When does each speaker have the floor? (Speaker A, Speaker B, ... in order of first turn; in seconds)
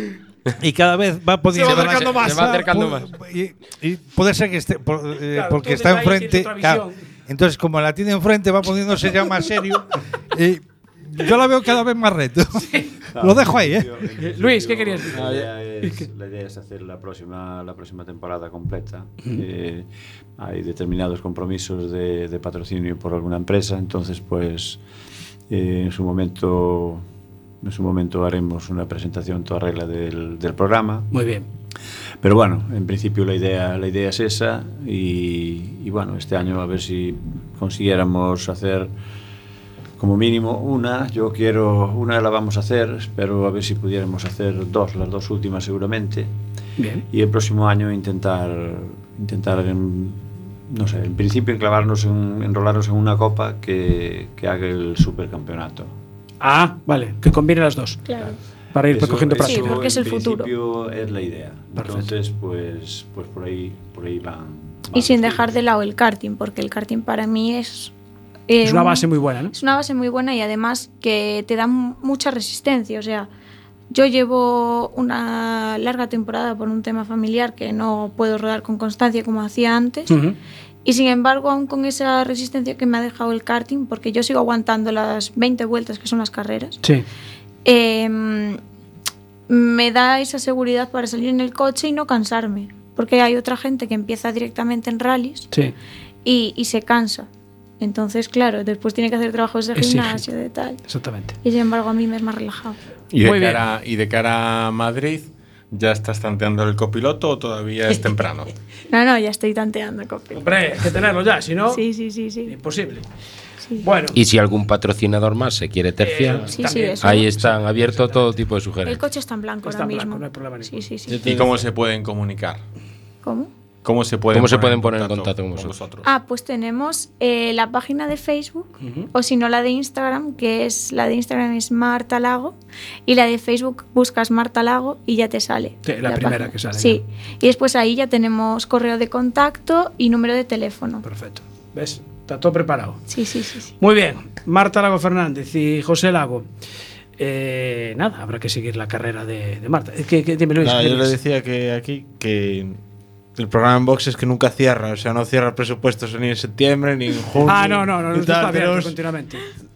Speaker A: 0.6-12.6, 13.2-13.9
Speaker B: 1.5-2.3, 5.3-6.9, 12.6-12.9, 14.2-16.1, 31.1-31.4, 46.8-47.0, 56.4-58.0, 58.7-59.8, 61.8-62.1, 68.6-69.5, 80.1-80.4, 99.7-100.2, 100.8-101.3, 103.2-103.6, 110.3-111.8, 112.5-113.1, 113.8-114.2, 116.0-118.3, 119.6-120.8, 128.8-129.1, 135.8-137.0, 141.0-143.0, 143.8-146.4, 147.2-151.2, 157.4-159.4
Speaker C: 1.6-3.1, 114.1-119.0, 124.3-125.8
Speaker D: 13.1-24.8, 25.5-27.0, 27.6-31.1, 32.2-38.9, 40.0-46.3, 47.1-55.9, 58.9-65.5
Speaker E: 15.1-15.5, 121.1-121.7, 150.6-152.8, 153.3-159.0
Speaker F: 58.0-58.4, 59.4-60.5, 64.9-67.9, 68.5-73.3, 73.9-80.2, 80.8-86.8, 87.6-88.6, 89.5-95.5, 96.2-97.3, 97.8-100.8, 101.4-102.8, 108.9-110.5, 111.7-112.5, 116.5-117.3, 118.8-121.2, 123.2-123.5, 126.0-141.0, 143.1-143.7
Speaker G: 103.1-108.5, 121.2-122.6, 123.8-126.1